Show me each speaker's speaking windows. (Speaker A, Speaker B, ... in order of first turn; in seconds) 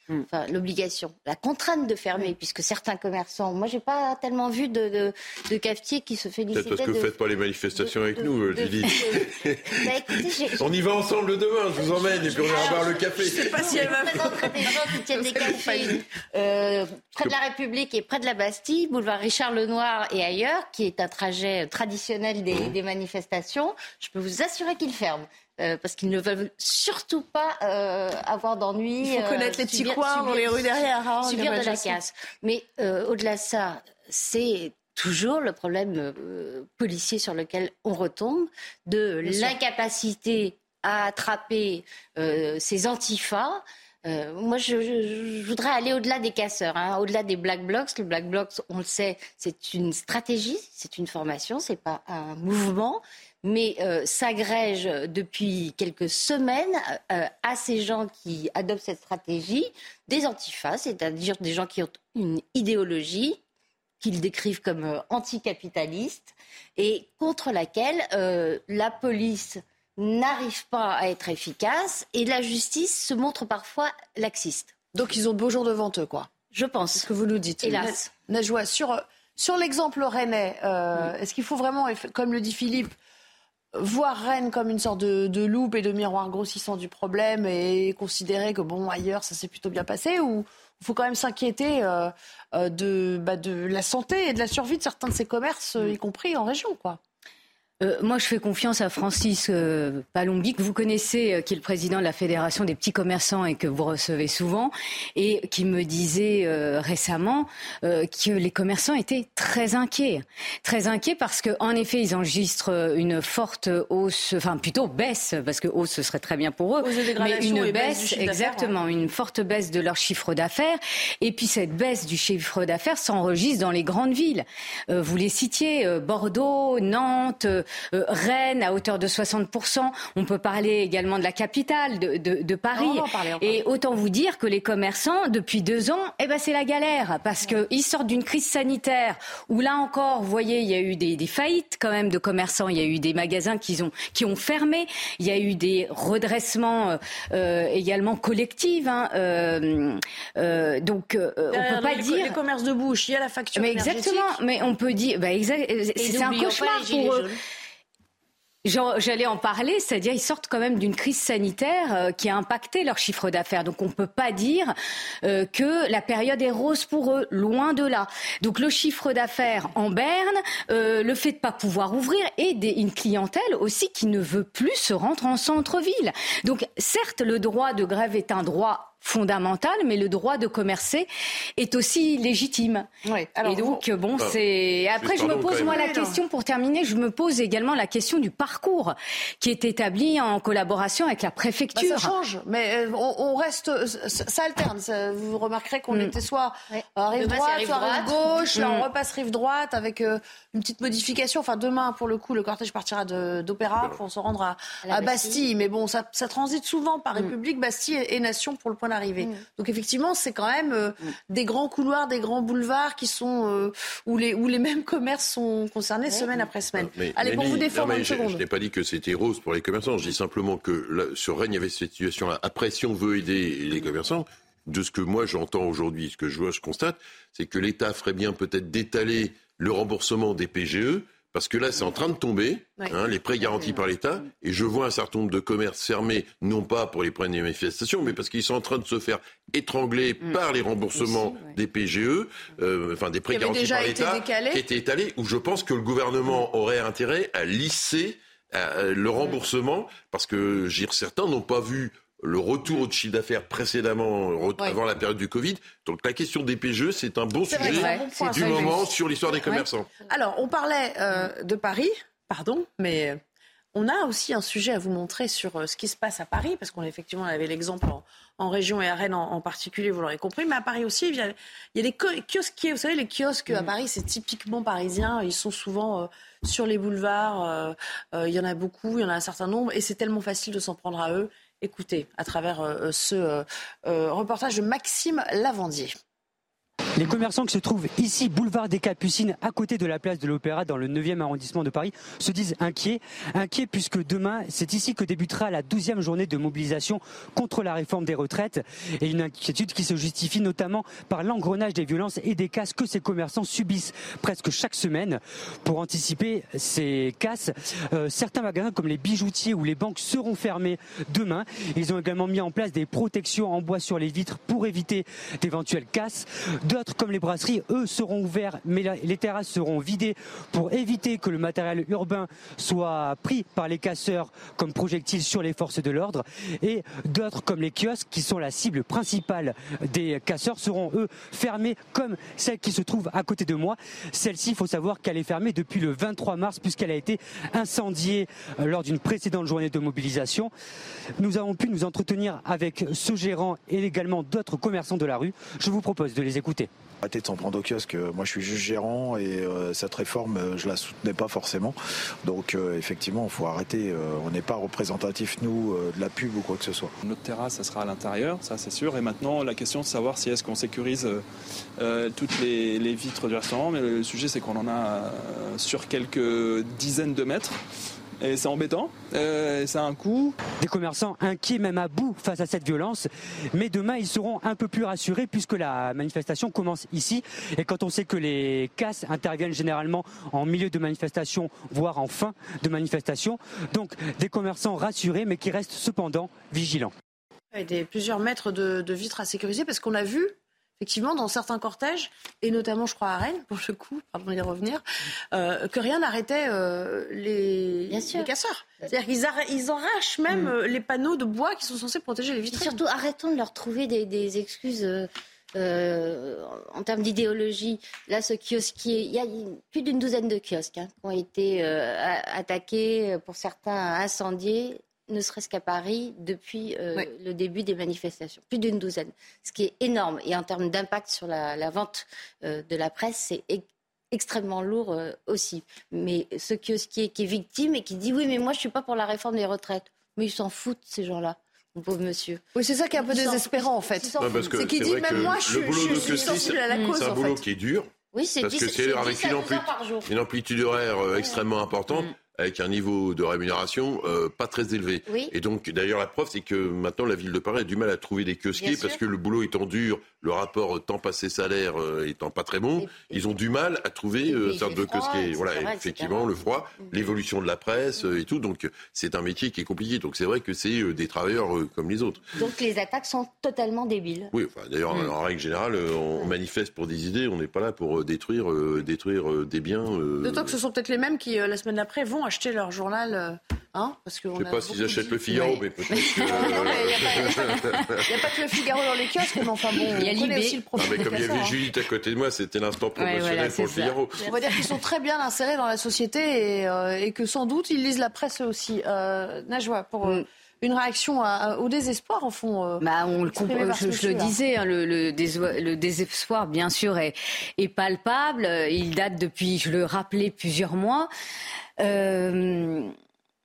Speaker A: 0.3-7.2, 7.8-10.7, 12.0-63.4, 64.0-74.8, 76.5-78.1, 156.0-157.3, 196.7-198.4, 204.8-205.4, 216.1-216.4, 397.9-398.3, 402.5-432.4, 433.0-434.6, 435.9-436.4, 438.1-440.1, 441.1-442.1, 445.1-445.3, 448.6-449.0, 452.8-453.3, 454.2-457.1, 462.4-464.3
Speaker B: 6.5-9.8, 10.5-14.2, 185.0-185.8, 216.8-259.9, 434.2-462.3, 464.3-470.6, 474.4-478.0, 480.8-484.2
Speaker C: 12.1-16.1, 29.0-32.0, 39.3-39.5, 74.9-76.3, 77.0-82.9, 83.8-97.0, 116.8-118.7, 132.8-133.6, 151.5-154.4, 183.1-183.8, 185.5-186.2, 191.8-218.4, 243.3-244.6, 257.5-258.9, 260.1-263.2, 263.7-285.9, 387.5-394.8, 395.3-402.8, 432.6-437.4, 470.2-481.6, 484.2-494.4
Speaker D: 97.8-152.3, 153.6-157.3, 158.7-182.9, 183.4-192.1, 198.5-198.8, 257.6-258.8, 476.1-477.9, 480.0-481.3, 483.0-483.9, 492.8-501.1, 501.8-502.9
Speaker E: 287.0-340.5, 341.2-346.7, 370.6-386.9
Speaker F: 347.0-356.9
Speaker G: 357.1-361.2, 361.8-367.6, 368.2-370.4